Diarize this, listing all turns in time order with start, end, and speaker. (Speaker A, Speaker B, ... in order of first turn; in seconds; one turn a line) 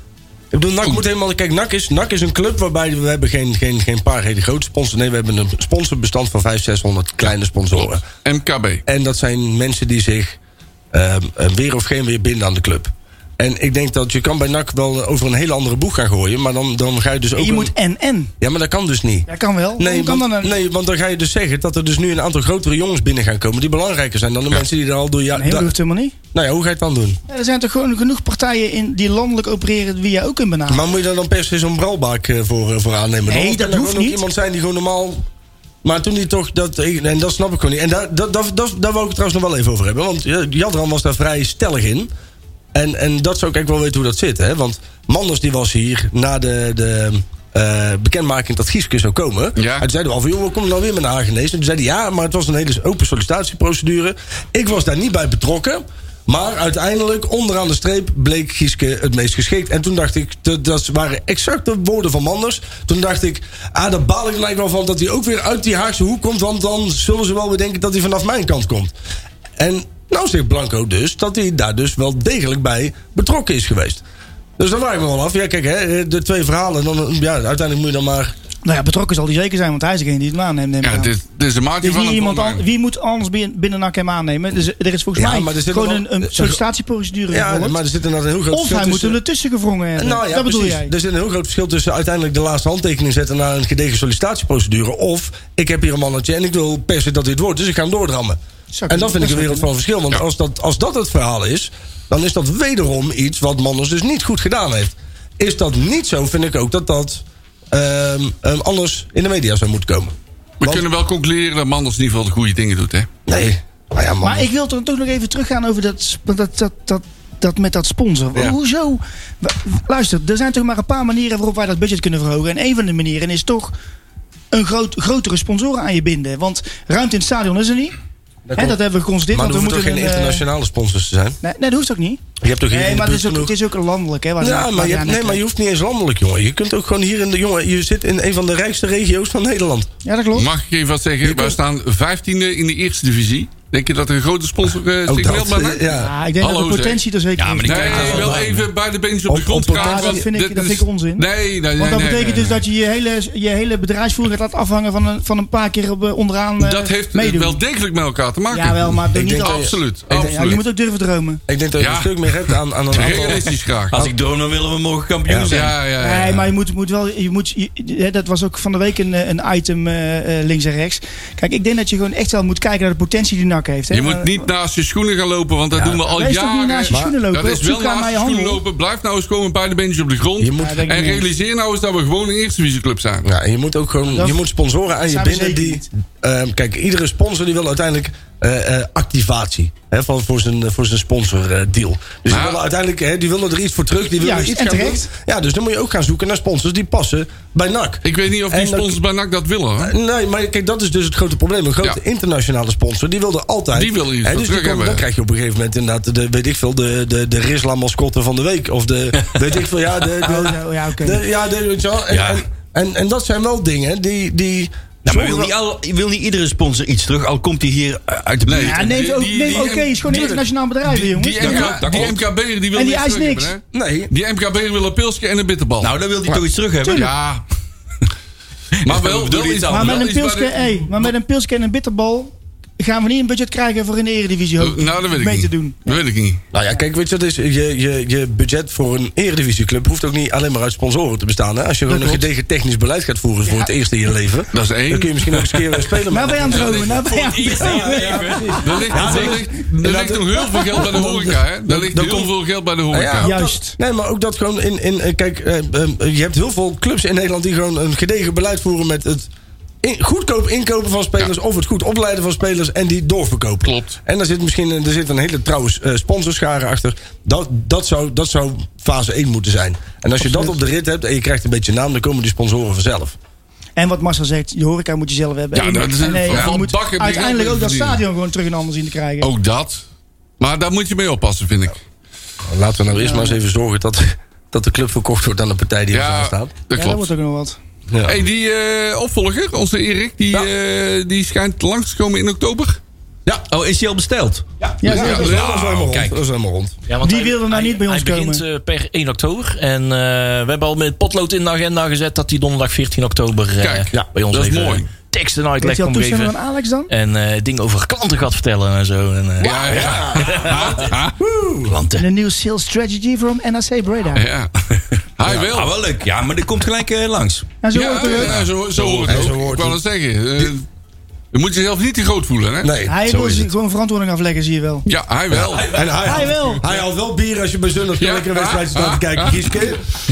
Speaker A: 0.5-8.0
Speaker B: 8.2-8.8
Speaker A: 8.9-10.4
Speaker A: 10.9-17.7
Speaker C: 17.4-18.3
Speaker A: 18.4-25.7
Speaker C: 19.3-20.5
Speaker C: 25.3-26.1
Speaker A: 26.3-27.2
Speaker C: 27.3-30.8
Speaker A: 30.7-35.2
Speaker C: 33.3-34.2
Speaker A: 35.8-42.1
Speaker A: 42.7-68.9
Speaker B: 49.6-49.9
Speaker A: 69.6-74.0
Speaker A: 74.6-78.3
Speaker C: 78.6-81.1
Speaker B: 80.8-82.6
Speaker C: 81.8-87.8
Speaker A: 85.1-86.6
Speaker A: 87.3-89.2
Speaker C: 88.5-90.9
Speaker A: 90.0-110.8
Speaker C: 98.7-99.7
Speaker B: 110.6-113.1
Speaker A: 113.3-114.5
Speaker C: 114.2-123.7
Speaker C: 124.5-127.9
Speaker A: 128.5-128.8
Speaker C: 128.6-130.4
Speaker A: 129.3-131.4
Speaker C: 131.4-135.4
Speaker A: 132.4-133.5
Speaker A: 134.4-139.9
Speaker C: 140.0-140.5
Speaker B: 140.3-145.8
Speaker A: 141.2-141.6
Speaker A: 145.1-146.1
Speaker C: 145.9-148.4
Speaker B: 146.4-147.0
Speaker D: 147.4-148.7
Speaker B: 147.6-152.6
Speaker A: 147.9-148.4
Speaker A: 149.3-150.3
Speaker C: 149.7-157.6
Speaker B: 156.6-160.6
Speaker C: 158.5-161.4
Speaker A: 159.1-159.8
Speaker A: 161.5-164.1
Speaker B: 161.8-164.0
Speaker D: 163.0-163.3
Speaker D: 163.9-165.8
Speaker A: 165.3-165.7
Speaker B: 165.5-166.5
Speaker C: 166.0-174.4
Speaker B: 173.9-183.3
Speaker C: 176.0-178.6
Speaker A: 176.9-177.2
Speaker A: 180.4-180.8
Speaker C: 180.6-181.2
Speaker A: 183.2-199.0
Speaker C: 184.1-184.4
Speaker C: 185.0-185.8
Speaker B: 192.3-192.6
Speaker C: 194.2-195.0
Speaker B: 198.0-199.9
Speaker A: 199.8-215.5
Speaker B: 203.7-205.0
Speaker C: 210.2-211.2
Speaker D: 212.1-212.4
Speaker D: 215.0-220.3
Speaker B: 218.4-225.9
Speaker C: 218.6-222.0
Speaker D: 221.3-222.2
Speaker C: 222.7-223.5
Speaker A: 223.7-224.1
Speaker D: 225.8-227.1
Speaker C: 226.8-227.1
Speaker B: 226.9-227.4
Speaker D: 228.8-230.1
Speaker B: 228.8-231.1
Speaker C: 229.7-236.0
Speaker B: 234.6-236.4
Speaker A: 236.5-247.0
Speaker B: 244.5-245.3
Speaker C: 246.1-249.1
Speaker B: 246.5-247.0
Speaker D: 246.8-249.3
Speaker A: 247.5-252.3
Speaker B: 248.6-253.3
Speaker A: 252.9-259.3
Speaker C: 253.2-253.8
Speaker A: 259.8-273.1
Speaker B: 263.6-263.9
Speaker C: 270.2-270.6
Speaker C: 273.8-279.3
Speaker B: 275.5-278.0
Speaker B: 279.2-279.8
Speaker B: 280.4-281.8
Speaker A: 282.4-286.5
Speaker C: 282.9-283.4
Speaker B: 285.9-287.1
Speaker C: 286.7-287.6
Speaker A: 287.9-288.2
Speaker B: 288.0-292.8
Speaker D: 293.5-296.2
Speaker C: 294.8-295.4
Speaker A: 294.8-296.8
Speaker B: 294.9-295.5
Speaker E: 296.9-306.3
Speaker C: 297.0-298.4
Speaker B: 303.6-304.9
Speaker C: 305.6-306.9
Speaker E: 306.9-309.6
Speaker B: 309.4-311.2
Speaker A: 309.7-310.1
Speaker D: 309.7-310.1
Speaker E: 310.1-310.7
Speaker A: 311.2-311.7
Speaker D: 311.7-312.0
Speaker C: 312.0-314.2
Speaker B: 314.1-314.5
Speaker B: 315.2-315.7
Speaker D: 315.2-317.5
Speaker C: 317.6-318.4
Speaker B: 317.7-320.6
Speaker D: 318.1-319.2
Speaker A: 319.0-319.8
Speaker B: 321.3-322.8
Speaker A: 322.6-323.5
Speaker C: 322.9-324.9
Speaker B: 324.9-325.9
Speaker D: 325.3-325.9
Speaker A: 325.6-329.8
Speaker C: 326.0-326.6
Speaker B: 328.0-329.5